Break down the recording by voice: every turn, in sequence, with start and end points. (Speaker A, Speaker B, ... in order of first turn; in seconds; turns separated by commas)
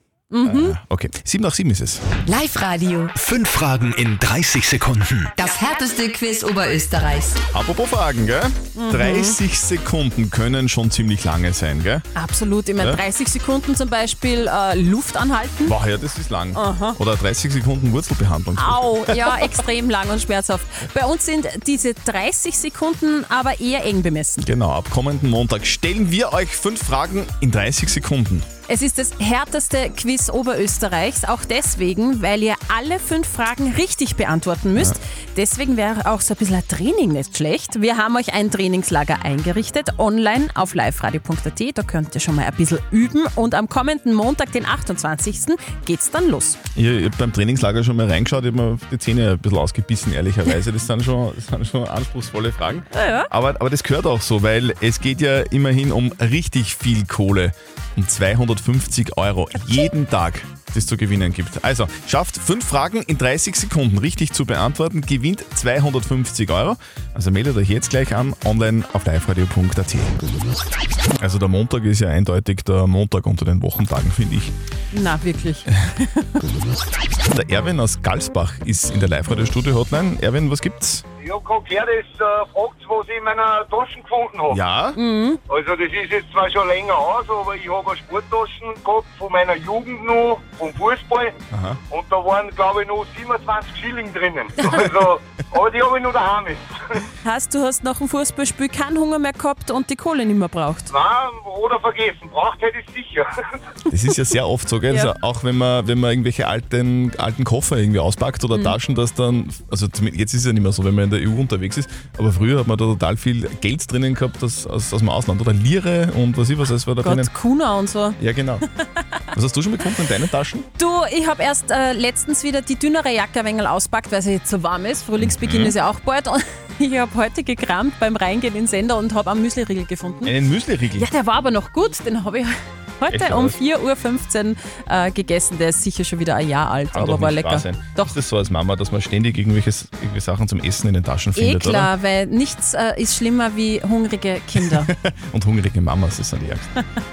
Speaker A: 0.3-0.8, Speaker B: 0.4-2.0, Speaker C: 2.3-3.1, Speaker D: 3.1-5.3, Speaker C: 5.4-7.4, Speaker B: 7.5-12.0, Speaker A: 8.7-9.4, Speaker A: 12.2-15.7, Speaker B: 15.6-19.5, Speaker A: 16.5-17.0, Speaker A: 18.6-24.4, Speaker B: 24.4-28.4, Speaker A: 28.7-46.6, Speaker B: 46.7-70.1, Speaker A: 52.9-53.3, Speaker B: 71.2-74.5, Speaker A: 74.9-76.2, Speaker B: 77.3-81.0, Speaker E: 81.2-84.6, Speaker B: 84.5-85.0, Speaker A: 85.0-85.4, Speaker E: 85.5-91.3, Speaker B: 91.5-91.8, Speaker E: 91.9-96.7, Speaker A: 97.2-100.9, Speaker E: 100.9-103.3, Speaker B: 103.9-117.3, Speaker A: 117.0-118.2, Speaker B: 118.2-118.6, Speaker B: 119.3-120.7, Speaker A: 120.8-130.3, Speaker B: 125.2-125.7, Speaker B: 130.2-131.1, Speaker A: 130.9-138.2, Speaker B: 133.1-133.6, Speaker B: 136.9-141.9, Speaker A: 141.3-144.9, Speaker B: 144.6-146.7